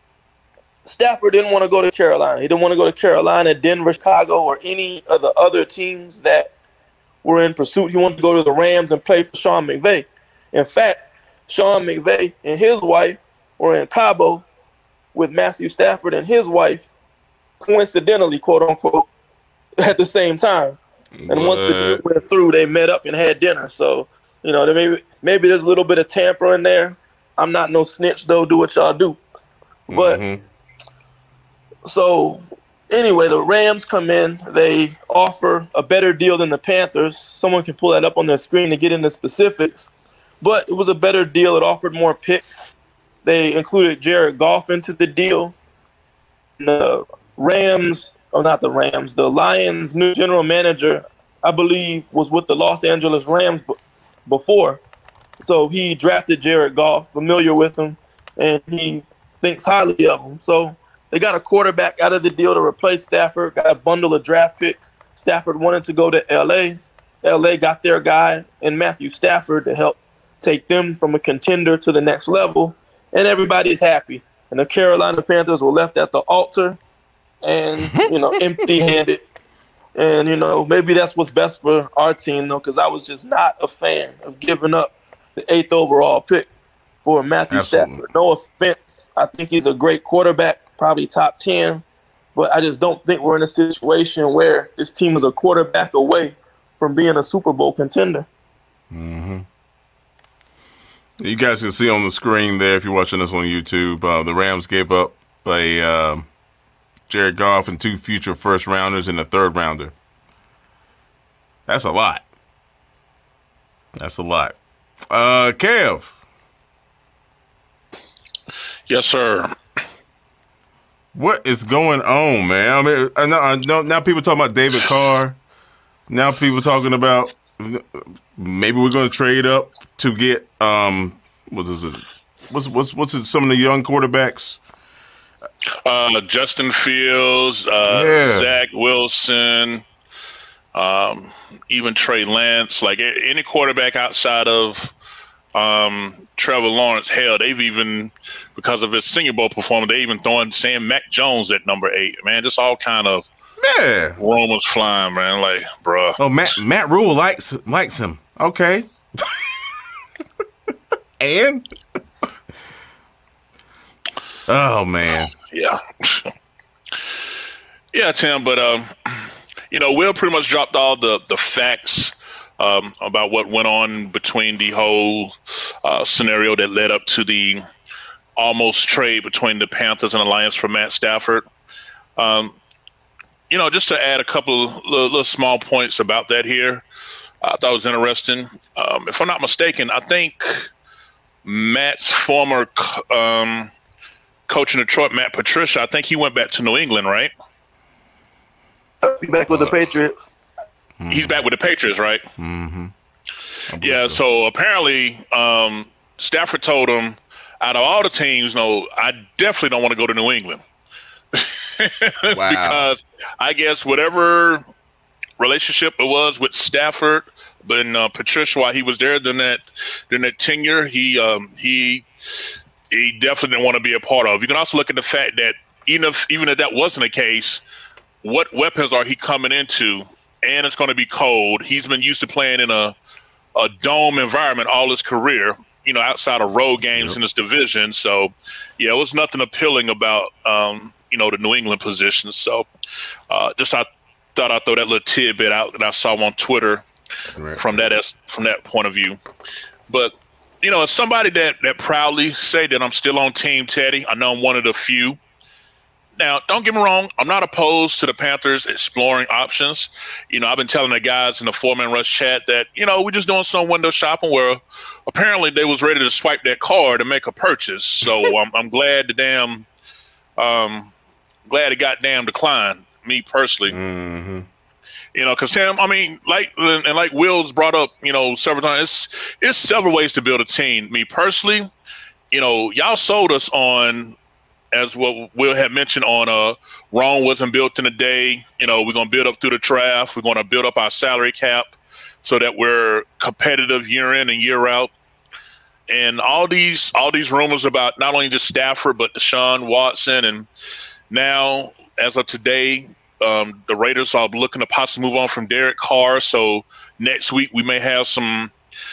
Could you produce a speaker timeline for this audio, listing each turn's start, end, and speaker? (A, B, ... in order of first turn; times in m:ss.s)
0:00.9-0:06.5 A
0:07.2-0:14.4 A
0:15.1-0:16.9 A
0:17.6-0:19.1 A
0:19.8-0:29.2 A
0:21.2-0:22.0 B
0:29.9-0:30.4 B
0:29.9-0:30.2 A
0:31.8-0:39.9 A
0:40.4-0:42.7 A
0:43.2-0:45.6 A
0:46.6-0:54.8 A
0:55.4-1:16.8 A
1:17.4-1:19.2 A
1:17.8-1:18.1 B
1:19.9-1:26.5 A
1:27.0-1:31.8 A
1:27.5-1:28.0 B
1:32.4-1:38.3 A
1:38.9-1:39.4 B
1:41.2-1:46.3 B
1:47.1-1:49.9 B
1:51.7-1:52.2 B
1:53.9-1:54.6 B
1:55.1-1:56.1 B
1:58.9-1:59.5 C
2:01.1-2:05.4 B
2:06.1-2:14.6 B
2:15.9-2:19.8 C
2:17.8-2:18.6 B
2:20.7-2:24.9 C
2:25.5-2:33.2 C
2:33.6-2:34.2 B
2:34.2-2:36.2 C
2:36.2-2:39.5 B
2:41.2-2:41.6 B
2:44.5-2:45.3 B
2:45.4-2:46.3 C
2:47.9-2:57.6 C
2:58.4-3:01.4 C
3:02.2-3:02.5 C
3:03.5-3:06.8 C
3:07.4-3:10.7 C
3:11.4-3:13.7 C
3:14.5-3:17.3 C
3:19.0-3:20.3 A
3:19.5-3:19.8 B
3:21.0-3:21.4 B
3:21.1-3:22.2 C
3:22.4-3:22.9 B
3:23.7-3:24.2 B
3:23.8-3:30.6 C
3:31.3-3:34.6 C
3:32.3-3:32.9 B
3:35.4-3:42.0 C
3:42.9-3:47.6 C
3:48.2-3:52.9 C
3:53.6-4:02.7 C
4:03.3-4:06.8 C
4:07.4-4:07.8 B
4:07.6-4:09.2 C
4:09.9-4:15.2 C
4:16.2-4:29.6 C
4:30.4-4:30.9 C
4:31.5-4:33.8 C
4:33.7-4:34.5 B
4:35.1-4:41.7 C
4:42.3-4:44.1 C
4:44.7-4:51.7 C
4:52.2-4:54.9 C
4:55.9-5:00.5 C
5:01.1-5:08.5 C